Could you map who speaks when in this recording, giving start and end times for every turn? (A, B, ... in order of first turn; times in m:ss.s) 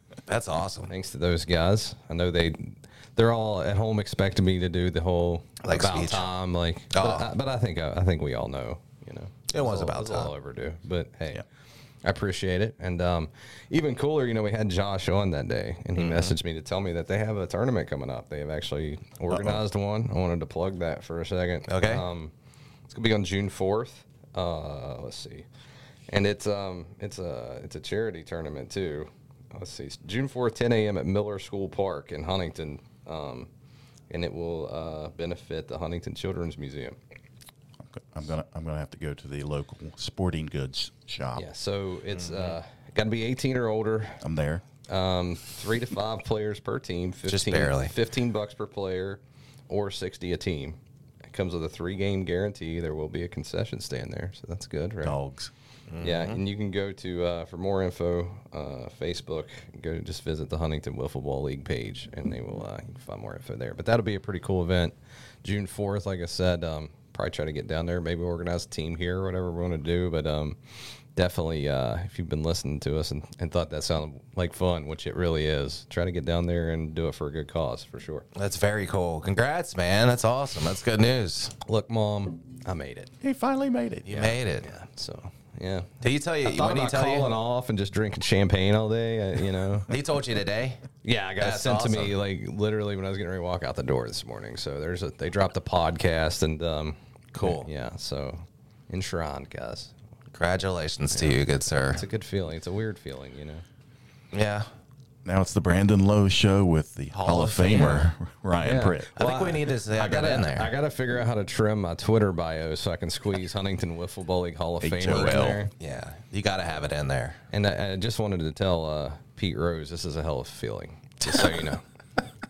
0:00.3-0:00.9 A
0:00.9-0:11.4 B
0:05.6-0:06.3 A
0:06.9-0:07.3 A
0:09.5-0:10.3 A
0:12.0-0:22.3 B
0:16.0-0:16.3 A
0:19.3-0:19.6 C
0:21.7-0:22.0 A
0:22.9-0:25.5 B
0:26.1-0:33.5 B
0:34.1-0:37.0 B
0:37.8-0:41.4 C
0:41.3-0:44.2 B
0:42.1-0:42.5 A
0:44.2-0:44.6 C
0:44.9-0:50.8 B
0:47.3-0:47.9 A
0:51.3-0:55.2 B
0:55.0-0:55.5 C
0:55.9-0:56.4 A
0:56.0-1:10.6 B
1:11.1-1:18.3 B
1:18.3-1:21.6 A
1:21.6-1:23.1 B
1:23.2-1:24.4 C
1:24.0-1:24.7 A
1:24.6-1:25.9 B
1:26.0-1:27.3 A
1:26.4-1:29.9 B
1:29.9-1:30.8 A
1:31.0-1:39.9 B
1:31.4-1:32.1 A
1:37.3-1:37.7 A
1:40.3-1:42.0 A
1:41.1-1:41.4 B
1:41.9-1:43.6 B
1:44.3-1:44.7 A
1:45.2-1:49.1 C
1:47.1-1:48.1 A
1:47.7-1:48.0 B
1:48.6-1:55.7 B
1:49.2-1:50.7 A
1:54.8-1:55.6 C
1:55.1-1:57.4 A
1:57.5-2:01.8 B
2:01.3-2:01.6 A